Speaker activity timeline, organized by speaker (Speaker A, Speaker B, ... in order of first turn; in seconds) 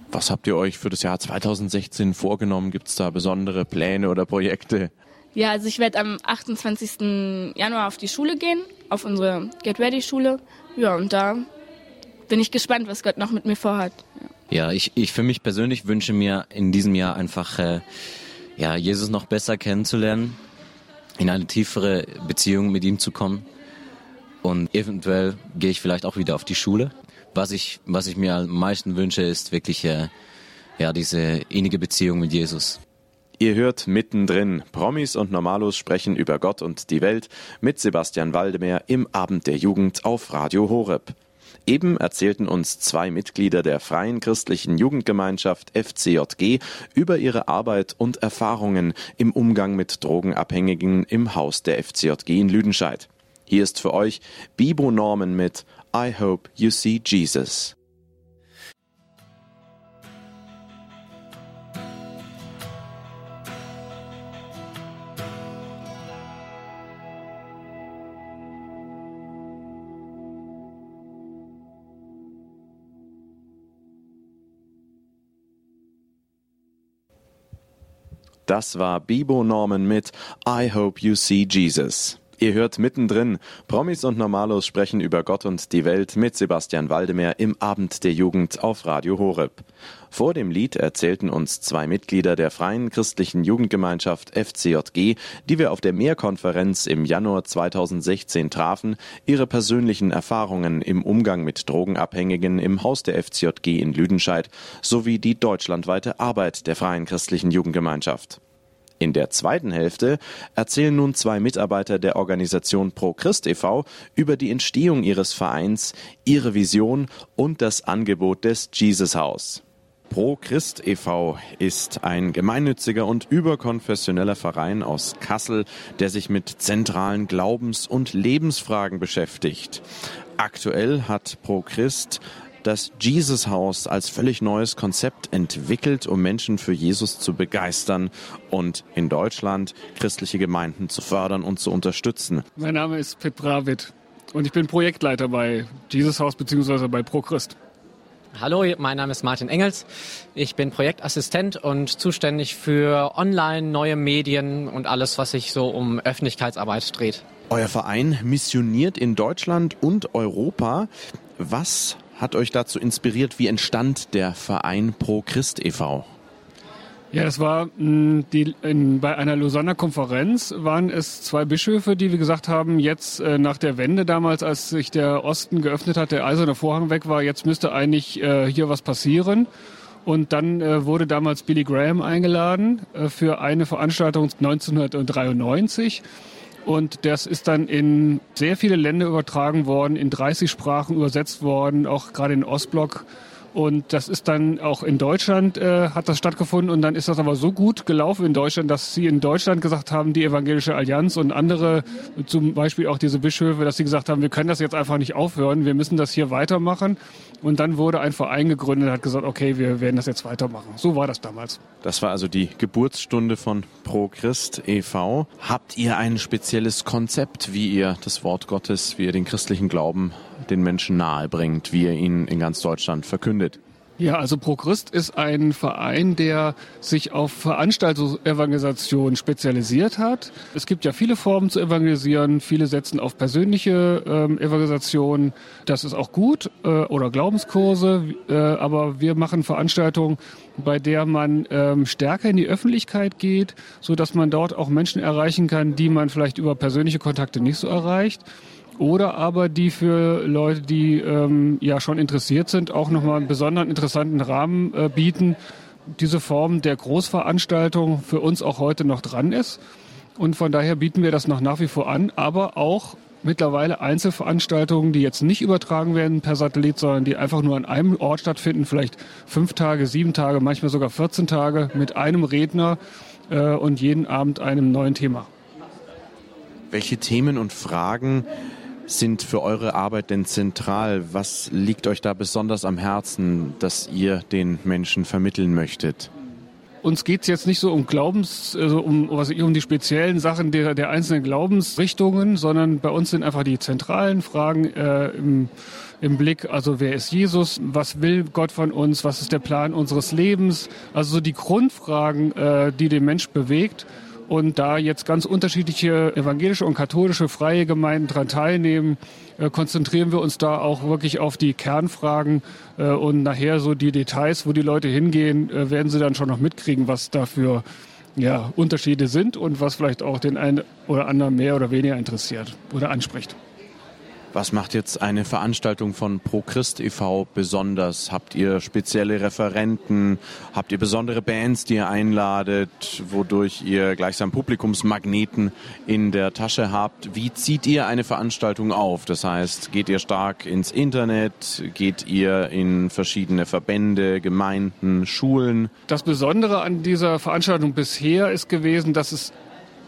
Speaker A: 0.1-4.9, 33.4-41.1, 41.6-57.7, 78.5-108.4, 109.0-129.8, 130.4-142.4, 157.5-166.1, 211.8-223.6, 276.7-278.3, 278.9-286.1, 324.3-345.7
Speaker B: 5.3-11.5, 12.3-14.3
Speaker C: 14.5-17.8, 18.6-20.4, 21.2-23.4, 24.4-30.1, 30.8-32.8
Speaker D: 142.6-147.6, 167.1-179.5, 180.0-186.0, 186.6-211.6, 224.0-248.2, 248.8-255.4, 255.9-259.6, 260.2-272.8, 273.3-275.3, 286.8-295.5, 296.0-317.6, 318.1-323.4, 345.9-349.3
Speaker E: 148.3-157.2